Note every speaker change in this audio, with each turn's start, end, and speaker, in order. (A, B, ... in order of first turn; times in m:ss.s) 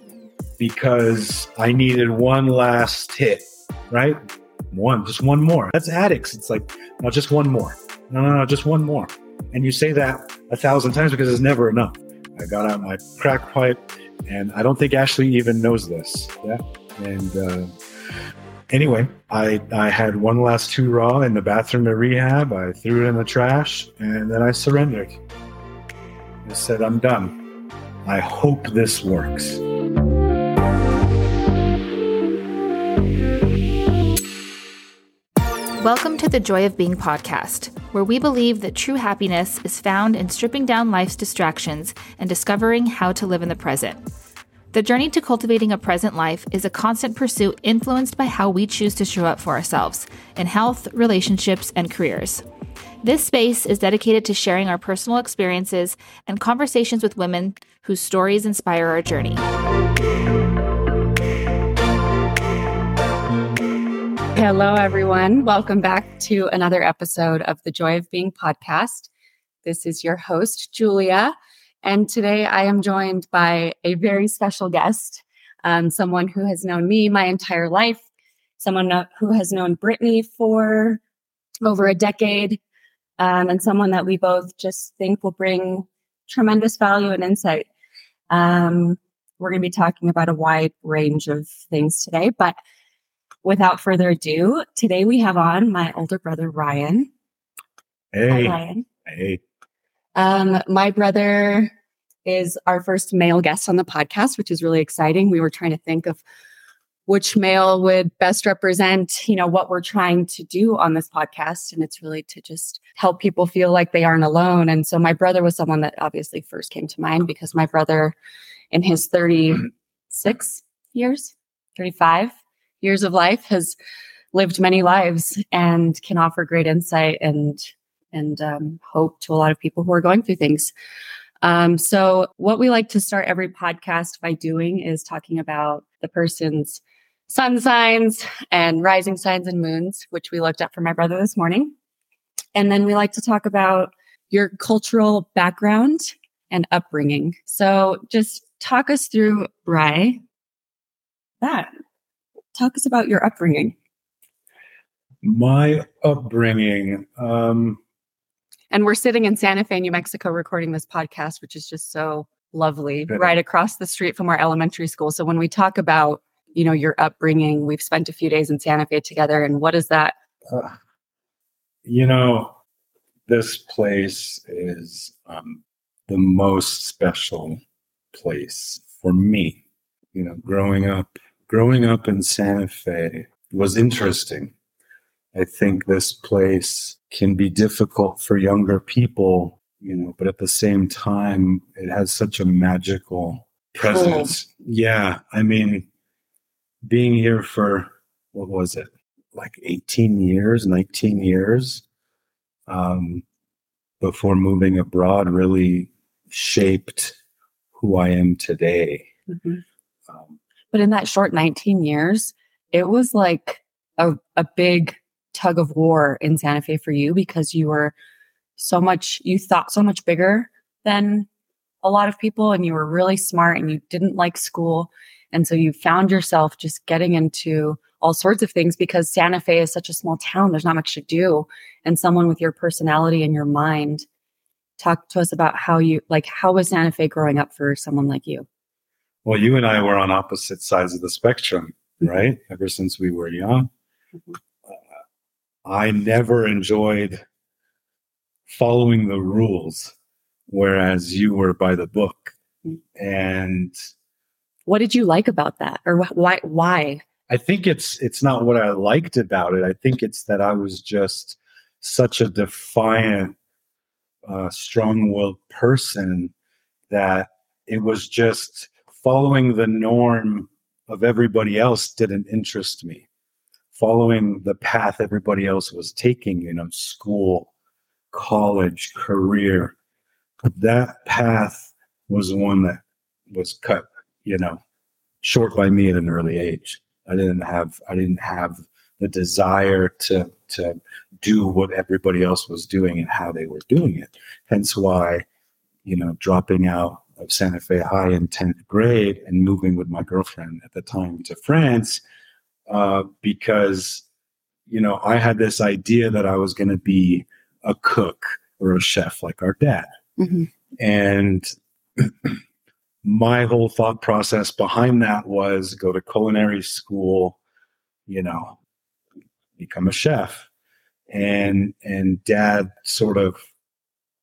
0:00.6-0:04.2 A
0:04.7-0:17.7 A
0:18.7-0:25.2 A
0:26.4-0:27.4 A
0:28.1-0:29.6 A
0:35.8-0:44.0 B
0:44.7-0:52.4 B
0:53.0-0:59.4 B
1:04.4-1:09.1 C
1:09.6-1:18.0 C
1:18.6-1:21.0 C
1:21.6-1:22.6 C
1:23.2-1:27.7 C
1:28.3-1:32.6 C
1:33.4-1:37.1 C
1:38.1-1:39.4 A
1:38.3-1:38.9 C
1:40.2-1:41.7 C
1:42.2-1:46.2 C
1:47.1-1:58.2 C
1:58.7-2:03.8 C
2:04.3-2:10.7 C
2:11.4-2:21.8 C
2:22.6-2:30.2 C
2:31.4-2:31.7 C
2:32.5-2:33.8 C
2:35.2-2:37.8 A
2:38.7-2:50.2 C
2:43.1-2:43.4 A
2:50.5-2:50.8 A
2:51.9-2:52.6 A
2:53.3-2:57.6 A
2:58.1-2:59.6 A
3:00.1-3:04.5 A
3:05.3-3:15.9 A
3:13.9-3:14.3 C
3:16.8-3:21.8 A
3:22.7-3:23.2 A
3:24.0-3:27.2 A
3:27.8-3:29.1 A
3:29.3-3:29.6 C
3:30.1-3:30.4 A
3:30.7-3:37.9 C
3:38.6-3:41.3 C
3:41.8-3:54.0 C
3:54.8-3:58.5 C
3:59.2-4:03.7 A
4:05.6-4:07.2 A
4:08.5-4:09.9 A
4:10.5-4:12.4 A
4:13.0-4:13.7 A
4:14.7-4:17.0 C
4:17.3-4:23.4 A
4:24.3-4:26.3 A
4:26.9-4:33.1 A
4:33.7-4:37.5 A
4:38.1-4:39.8 A
4:40.5-4:44.6 A
4:45.2-4:55.2 A
4:55.8-5:02.0 A
5:02.7-5:04.0 A
5:04.7-5:09.9 A
5:10.2-5:10.5 C
5:10.8-5:12.4 A
5:13.0-5:17.4 A
5:18.1-5:18.6 A
5:19.6-5:20.5 A
5:21.1-5:23.4 A